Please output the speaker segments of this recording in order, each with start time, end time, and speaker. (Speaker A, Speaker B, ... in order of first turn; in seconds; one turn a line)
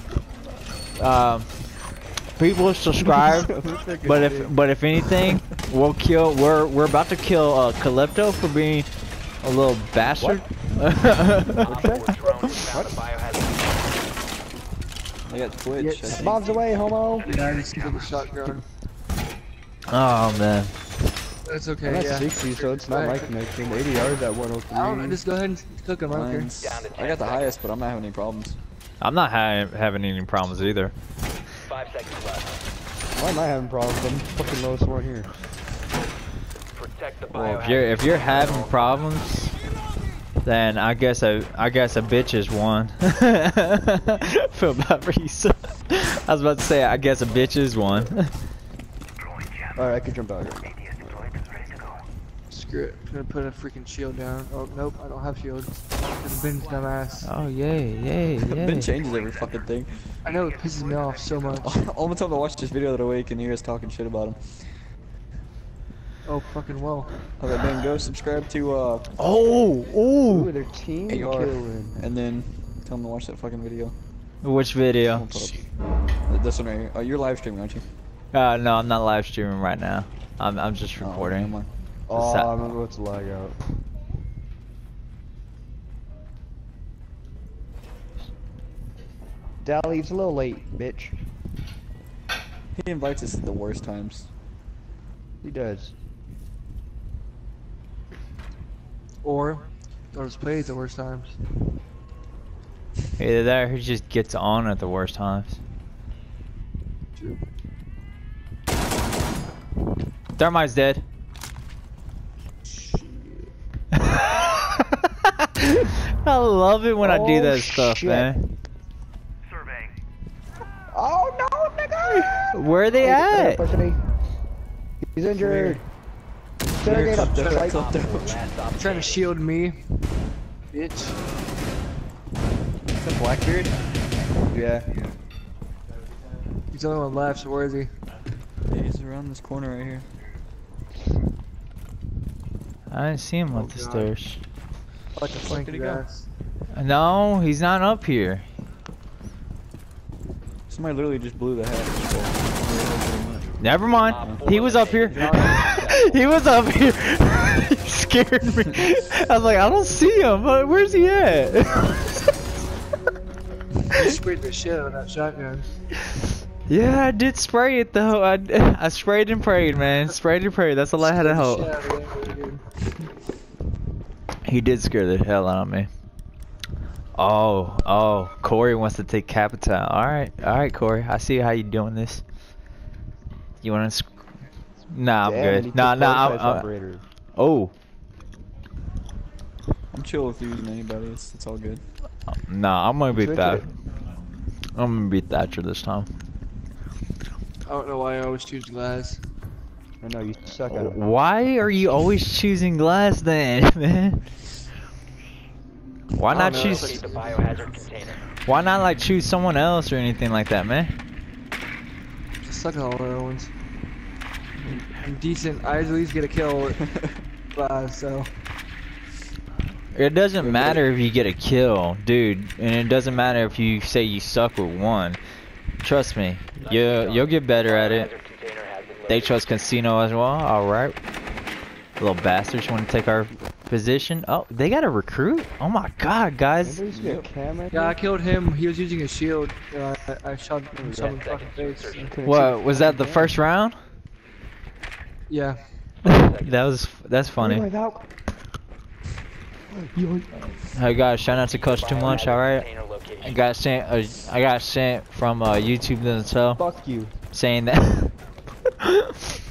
Speaker A: 1.0-1.6
Speaker A: 2.4-8.9
Speaker B: 3.1-4.3
Speaker A: 9.4-11.6
Speaker C: 11.6-13.8
Speaker B: 11.6-12.0
Speaker D: 11.6-12.1
Speaker B: 15.3-16.4
Speaker E: 15.8-16.2
Speaker D: 16.2-17.3
Speaker E: 17.2-18.6
Speaker A: 19.9-20.7
Speaker E: 21.4-23.3
Speaker D: 21.9-25.2
Speaker E: 24.7-26.5
Speaker B: 26.1-28.6
Speaker C: 26.6-27.6
Speaker A: 29.0-30.9
Speaker C: 31.7-32.6
Speaker D: 33.2-35.4
Speaker C: 36.8-38.9
Speaker A: 37.4-39.5
Speaker A: 40.4-48.3
Speaker D: 49.8-50.7
Speaker C: 51.0-51.7
Speaker E: 52.5-57.3
Speaker A: 57.2-58.9
Speaker B: 58.4-60.2
Speaker E: 60.2-61.7
Speaker B: 61.6-64.8
Speaker E: 66.2-67.1
Speaker B: 67.4-69.1
Speaker A: 69.2-70.5
Speaker D: 70.3-72.0
Speaker B: 71.1-74.0
Speaker A: 74.4-75.3
Speaker B: 75.1-77.8
Speaker A: 78.3-81.6
Speaker B: 81.0-81.7
Speaker D: 82.1-83.6
Speaker A: 82.1-82.5
Speaker D: 89.6-91.1
Speaker B: 92.8-94.3
Speaker D: 95.4-95.9
Speaker E: 99.2-101.4
Speaker A: 103.2-105.6
Speaker E: 107.2-107.4
Speaker A: 110.4-111.0
Speaker A: 114.0-115.1
Speaker A: 115.8-118.5
Speaker D: 117.0-118.3
Speaker D: 120.9-124.0
Speaker A: 122.5-123.6
Speaker D: 125.1-125.8
Speaker B: 125.3-125.8
Speaker D: 126.8-127.8
Speaker B: 126.8-128.5
Speaker E: 127.0-127.8
Speaker C: 127.7-129.2
Speaker E: 128.8-129.8
Speaker E: 130.7-131.2
Speaker B: 132.9-133.8
Speaker D: 134.5-134.9
Speaker E: 136.7-137.9
Speaker B: 138.7-140.1
Speaker A: 142.9-144.4
Speaker E: 143.5-144.1
Speaker E: 145.2-146.3
Speaker B: 145.2-146.0
Speaker A: 146.7-148.5
Speaker B: 150.7-153.5
Speaker A: 153.6-162.1
Speaker C: 154.1-156.3
Speaker E: 155.1-155.8
Speaker E: 163.9-165.7
Speaker A: 166.7-171.8
Speaker E: 171.0-172.6
Speaker A: 174.4-175.9
Speaker A: 177.2-182.2
Speaker A: 183.6-184.1
Speaker A: 184.9-186.7
Speaker D: 185.2-187.0
Speaker A: 187.3-187.7
Speaker B: 189.9-191.8
Speaker A: 192.3-193.7
Speaker D: 193.1-193.7
Speaker A: 194.8-196.1
Speaker E: 197.6-199.2
Speaker D: 200.0-201.0
Speaker A: 200.7-204.3
Speaker A: 206.2-207.0
Speaker E: 206.3-207.8
Speaker C: 206.3-208.2
Speaker A: 208.4-210.9
Speaker E: 212.4-213.5
Speaker E: 214.7-216.9
Speaker E: 217.5-218.3
Speaker A: 219.9-225.2
Speaker B: 220.4-220.8
Speaker A: 225.8-228.1
Speaker C: 226.6-229.7
Speaker A: 229.1-230.9
Speaker A: 232.0-236.8
Speaker D: 236.6-238.0
Speaker B: 236.9-237.3
Speaker E: 237.7-242.2
Speaker D: 240.8-241.2
Speaker C: 241.2-242.2
Speaker B: 242.2-242.6
Speaker A: 242.2-243.8
Speaker D: 242.7-243.2
Speaker E: 245.3-245.6
Speaker C: 246.1-246.7
Speaker A: 246.1-247.7
Speaker D: 247.4-248.0
Speaker D: 249.9-250.6
Speaker A: 250.7-252.7
Speaker C: 251.3-253.4
Speaker A: 253.2-256.6
Speaker D: 256.6-257.1
Speaker A: 257.3-258.1